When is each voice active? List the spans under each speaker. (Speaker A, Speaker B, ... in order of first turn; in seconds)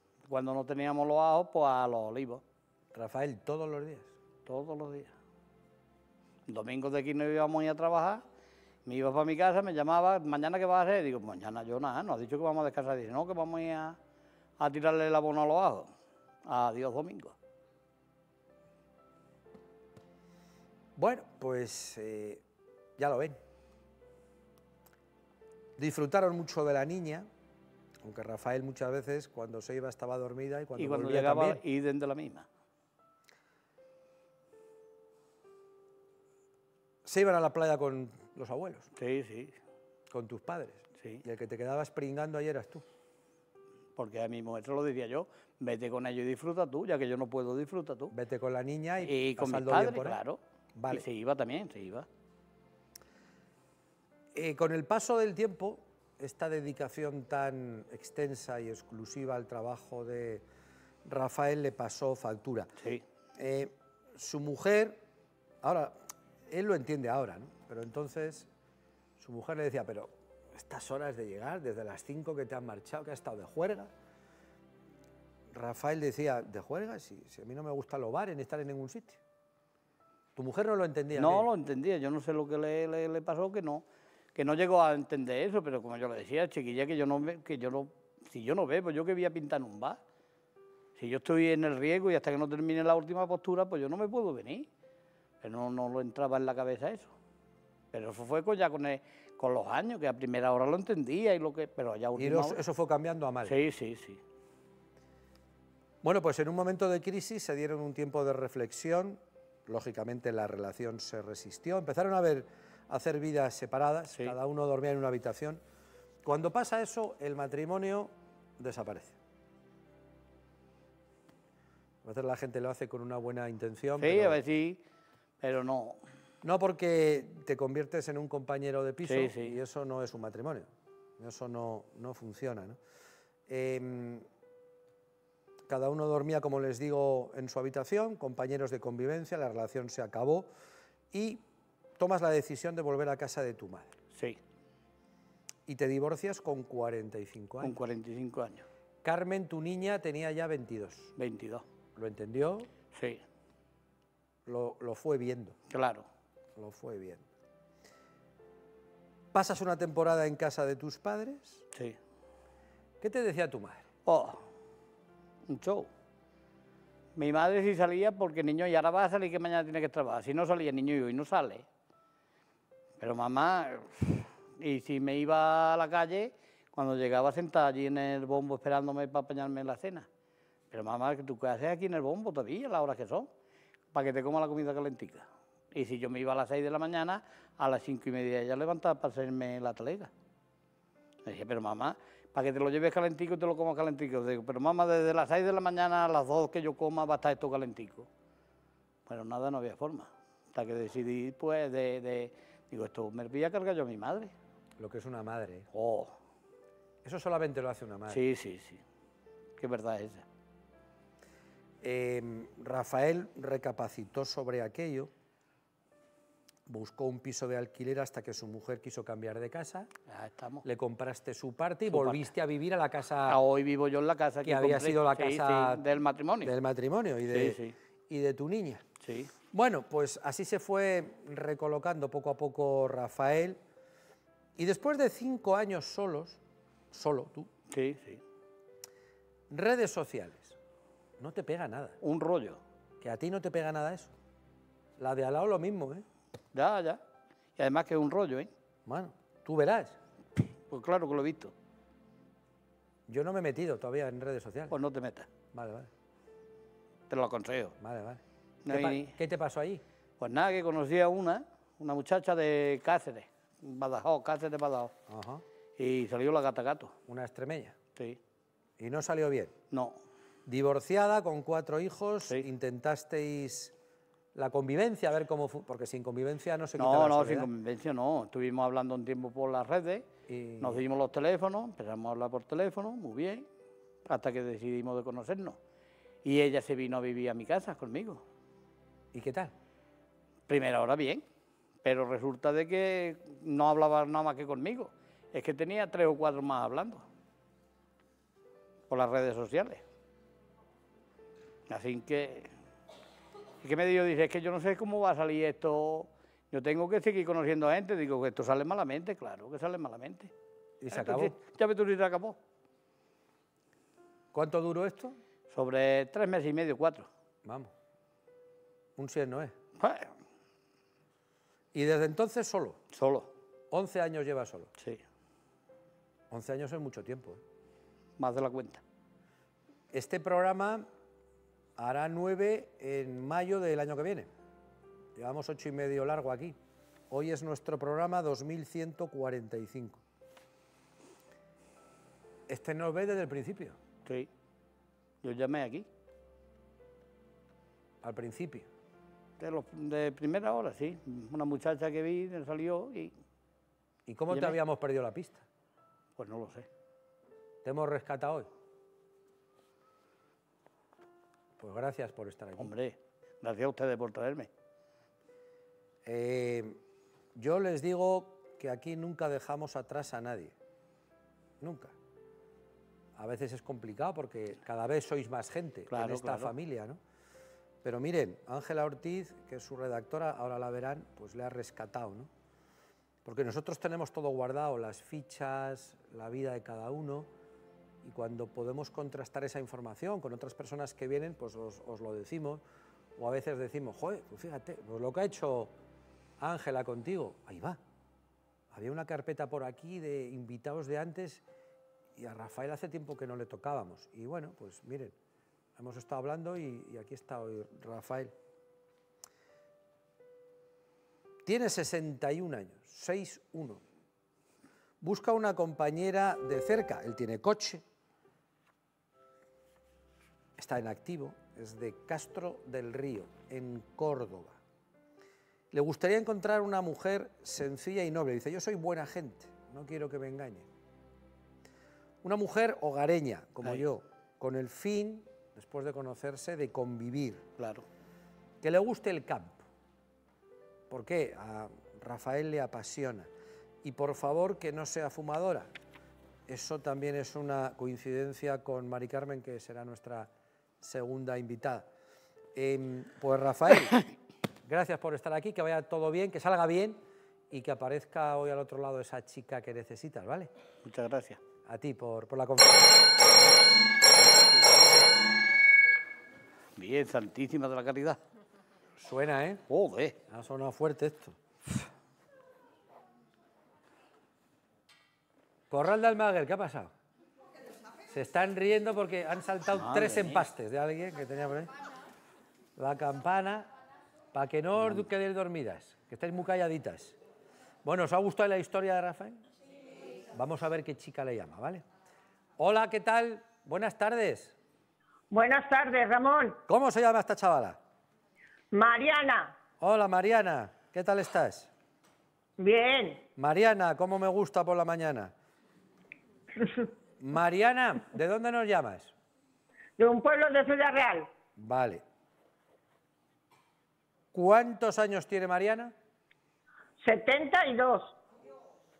Speaker A: 0.2-2.4, 4.5-5.1, 6.5-8.2, 8.8-14.0, 14.6-15.9, 16.4-17.4, 30.8-32.5, 39.0-39.5, 41.0-41.2, 44.0-48.1, 49.0-52.1, 81.1-90.0, 91.0-94.7, 95.4-97.1, 97.9-102.6, 103.4-104.2, 124.0-124.8, 125.4-126.0, 129.0-129.6, 144.1-144.4, 147.6-148.6, 151.2-151.6, 152.9-153.2, 155.7-156.1, 161.7-162.0, 164.1-164.4, 165.4-165.9, 167.2-171.7, 173.0-180.1, 180.7-183.3, 183.9-190.1, 191.2-198.1, 199.1-204.3, 205.7-206.2, 208.1-208.8, 209.6-210.2, 220.1-220.6, 221.9-222.3, 223.3-226.5, 227.3-227.7, 229.0-229.3, 237.7-238.2, 242.0-242.6, 246.5-247.0, 247.6-248.5, 250.7-251.5, 254.7-255.3, 257.1-257.7, 258.6-259.1, 260.2-264.9, 265.8-266.9, 269.7-270.0, 276.8-280.1, 280.6-283.5, 284.1-285.6, 286.2-288.2, 290.5-291.2, 291.8-297.0, 298.9-299.8, 301.7-302.5, 303.6-310.3, 310.9-312.4, 315.5-317.1, 319.8-320.1, 322.9-323.3, 328.2-328.8, 344.0-344.3, 345.2-345.9, 349.4-353.1, 354.3-354.6, 356.2-356.7, 362.6-364.5, 375.9-376.5, 437.6-437.8, 460.8-461.4, 464.5-465.0, 466.8-468.2, 469.7-470.2, 479.7-480.5, 484.8-485.1
Speaker B: 2.9-4.1, 21.0-22.4, 23.0-23.4, 25.8-27.3, 28.0-31.6, 37.0-38.9, 40.1-42.8, 48.1-50.2, 50.7-51.0, 54.3-60.4, 61.0-62.7, 63.4-65.0, 65.6-68.5, 69.2-73.9, 75.5-79.2, 80.3-81.5, 102.2-103.5, 106.0-115.6, 116.2-119.2, 122.0-124.4, 126.4-132.8, 133.5-134.2, 135.7-140.5, 141.1-141.4, 142.0-143.9, 145.7-147.8, 149.0-151.1, 151.9-152.7, 154.4-155.6, 156.6-157.2, 159.3-161.6, 163.0-163.8, 204.8-205.7, 207.0-208.2, 211.8-215.1, 216.7-219.9, 220.6-223.4, 224.4-225.8, 226.4-228.8, 229.5-233.6, 234.6-236.4, 236.9-237.5, 239.5-240.6, 241.2-242.0, 243.0-244.1, 245.0-246.0, 248.8-250.0, 253.1-254.8, 255.5-255.9, 257.8-259.8, 265.1-265.4, 267.1-267.8, 268.8-269.5, 270.4-273.7, 274.3-277.5, 280.3-280.8, 289.1-289.5, 310.8-311.4, 314.3-315.2, 317.4-317.7, 319.0-319.5, 321.7-322.8, 323.7-324.7, 326.3-327.4, 329.9-330.9, 331.8-334.3, 335.1-336.6, 337.1-340.0, 342.5-343.8, 348.0-348.7, 354.1-355.4, 357.6-358.5, 361.6-362.7, 366.1-366.8, 367.3-370.5, 371.6-371.9, 373.2-377.0, 377.8-382.3, 383.2-387.3, 388.0-392.6, 393.2-395.7, 396.4-397.8, 398.7-401.4, 402.2-405.1, 405.8-408.3, 411.4-413.8, 415.0-417.8, 420.6-424.6, 425.7-430.7, 432.2-437.4, 438.6-439.6, 440.9-443.3, 443.8-445.7, 446.5-450.3, 450.8-451.9, 452.5-454.0, 454.6-460.5, 461.6-463.0, 469.0-469.6, 470.3-471.4, 475.7-476.9, 478.1-481.7, 482.8-483.7, 484.3-487.2, 487.8-489.4, 490.3-491.8, 492.6-494.5, 496.7-497.8, 499.8-501.7, 503.4-505.3, 507.2-509.1, 511.6-512.0, 514.3-515.9
Speaker C: 495.3-496.6, 498.7-499.6, 502.6-503.2, 510.0-511.3, 517.0-518.2